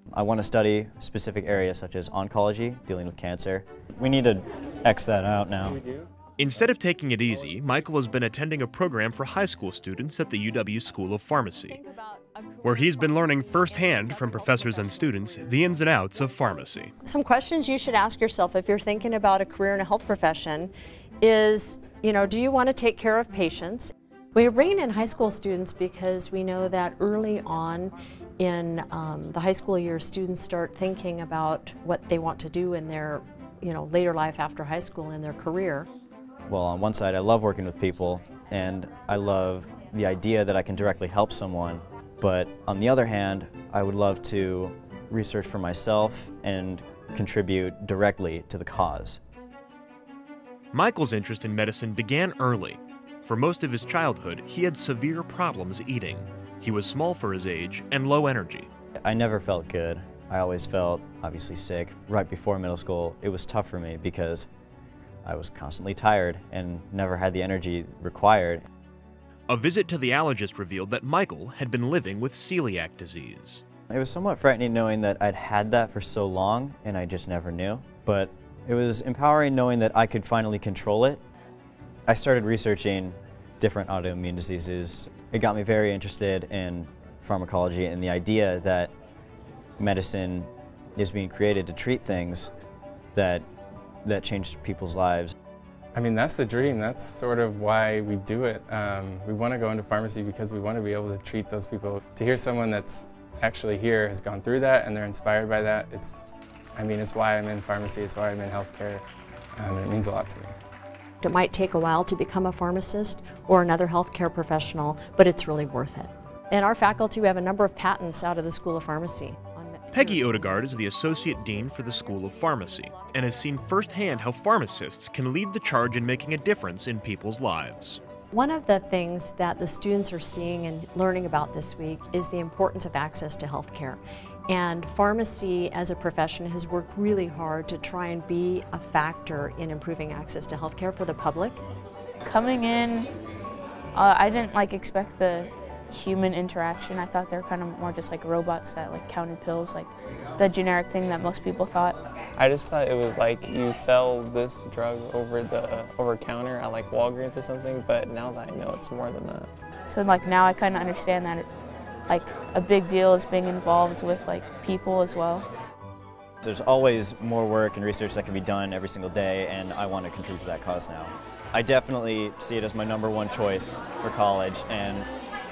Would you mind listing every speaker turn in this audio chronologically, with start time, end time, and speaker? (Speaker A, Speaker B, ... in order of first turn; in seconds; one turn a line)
Speaker A: 0.1-5.8
Speaker B: 6.4-11.8
Speaker C: 11.7-15.5
Speaker B: 12.6-16.9
Speaker C: 17.0-35.9
Speaker A: 36.5-49.2
Speaker B: 50.7-58.7
Speaker A: 59.0-64.5
Speaker A: 65.2-68.7
Speaker B: 69.5-73.6
Speaker A: 73.9-81.2
Speaker A: 82.1-88.9
Speaker A: 89.8-92.5
Speaker A: 93.2-93.5
Speaker A: 94.0-95.3
Speaker D: 96.0-109.0
Speaker D: 109.6-110.5
Speaker C: 111.2-122.7
Speaker B: 119.9-128.0
Speaker C: 128.3-141.6
Speaker E: 142.2-143.1
Speaker E: 143.9-152.0
Speaker F: 152.4-159.5
Speaker E: 159.9-161.5
Speaker E: 162.1-165.5
Speaker A: 166.4-175.1